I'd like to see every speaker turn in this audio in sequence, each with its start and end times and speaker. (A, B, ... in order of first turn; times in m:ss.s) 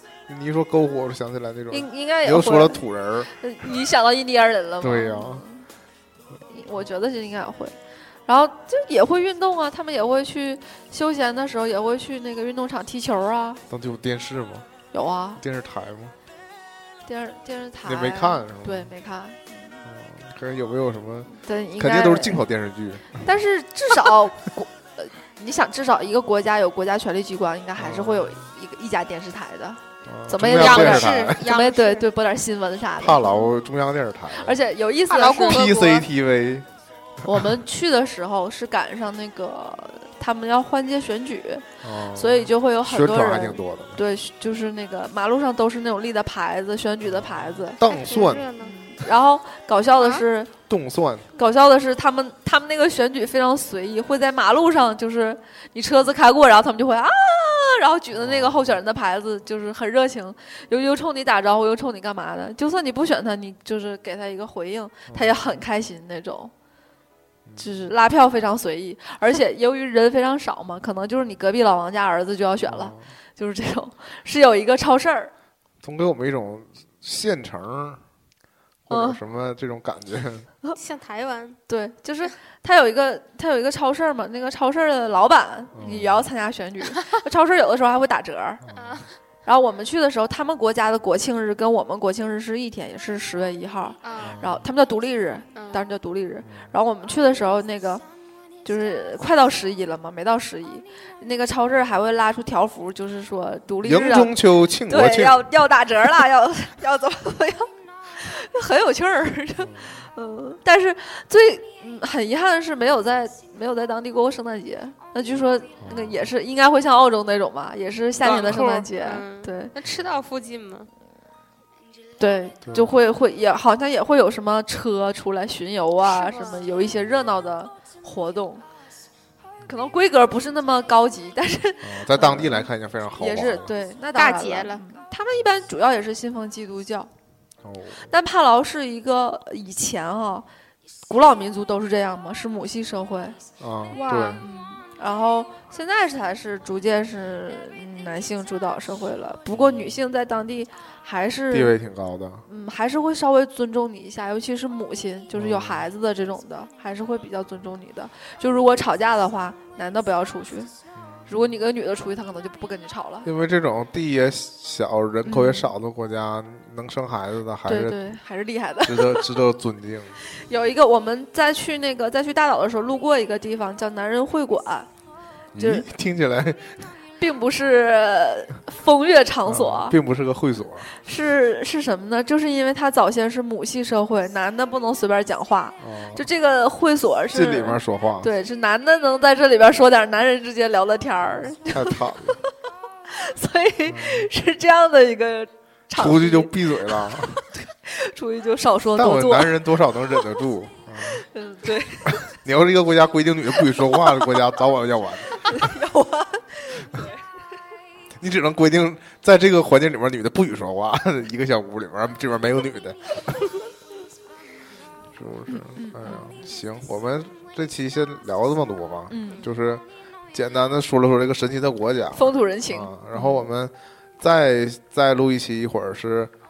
0:00.3-0:03.3 A
0:01.7-0:05.7 B
0:04.8-0:05.4 A
0:06.5-0:07.7 B
0:08.3-0:13.6 B
0:13.7-0:14.7 A
0:14.9-0:15.4 B
0:15.4-0:16.1 A
0:17.0-0:19.8 B
0:17.8-0:18.9 A
0:19.8-0:23.2 A
0:21.3-0:22.4 B
0:23.1-0:33.5 B
0:27.8-0:28.4 A
0:30.0-0:31.5 A
0:30.6-0:32.1 C
0:33.0-0:34.6 A
0:34.3-0:36.0 B
0:35.1-0:35.7 C
0:35.4-0:36.7 A
0:37.2-0:47.8 B
0:41.8-0:44.0 A
0:47.0-0:48.5 A
0:47.8-0:48.7 C
0:48.6-0:50.5 B
0:50.7-0:51.3 A
0:51.4-1:06.5 B
0:58.1-0:58.7 A
1:05.1-1:05.5 A
1:07.4-1:07.7 A
1:07.6-1:15.3 B
1:12.7-1:13.1 A
1:15.8-1:18.0 A
1:18.9-1:20.5 A
1:18.9-1:19.2 B
1:20.8-1:21.6 C
1:21.7-1:28.6 B
1:25.7-1:26.3 A
1:28.6-1:29.0 A
1:28.7-1:29.1 C
1:29.4-1:38.0 B
1:34.0-1:34.4 C
1:34.2-1:34.6 A
1:35.6-1:35.8 C
1:36.4-1:36.7 A
1:38.6-1:59.7 B
1:43.8-1:45.5 A
1:49.6-1:49.9 A
1:55.8-1:56.3 A
1:58.2-2:00.9 C
2:02.2-2:08.6 B
2:02.6-2:03.0 A
2:06.0-2:06.6 C
2:09.7-2:17.1 B
2:11.8-2:13.7 A
2:14.1-2:14.8 C
2:17.6-2:18.1 A
2:18.1-2:20.4 B
2:21.1-2:23.4 B
2:23.6-2:24.4 A
2:23.9-2:24.4 C
2:24.4-2:31.7 B
2:29.6-2:30.0 A
2:31.5-2:32.4 A
2:32.4-2:40.7 B
2:35.3-2:35.9 A
2:40.9-2:41.3 A
2:41.3-2:43.3 B
2:43.2-2:48.0 A
2:45.2-2:45.7 B
2:47.6-2:49.3 B
2:48.9-2:50.2 A
2:50.2-2:54.9 B
2:55.5-2:56.9 A
2:55.6-2:55.9 B
2:57.2-3:00.0 B
2:59.4-3:00.9 A
3:00.9-3:12.0 B
3:05.8-3:06.2 A
3:07.3-3:08.3 A
3:11.6-3:12.4 A
3:13.1-3:20.3 B
3:13.9-3:14.3 A
3:15.9-3:17.5 A
3:18.9-3:21.2 A
3:21.1-3:22.3 B
3:22.1-3:25.7 A
3:25.4-3:27.2 B
3:28.2-3:33.6 A
3:35.1-3:46.3 A
3:35.5-3:36.2 B
3:39.1-3:39.4 B
3:42.1-3:43.5 B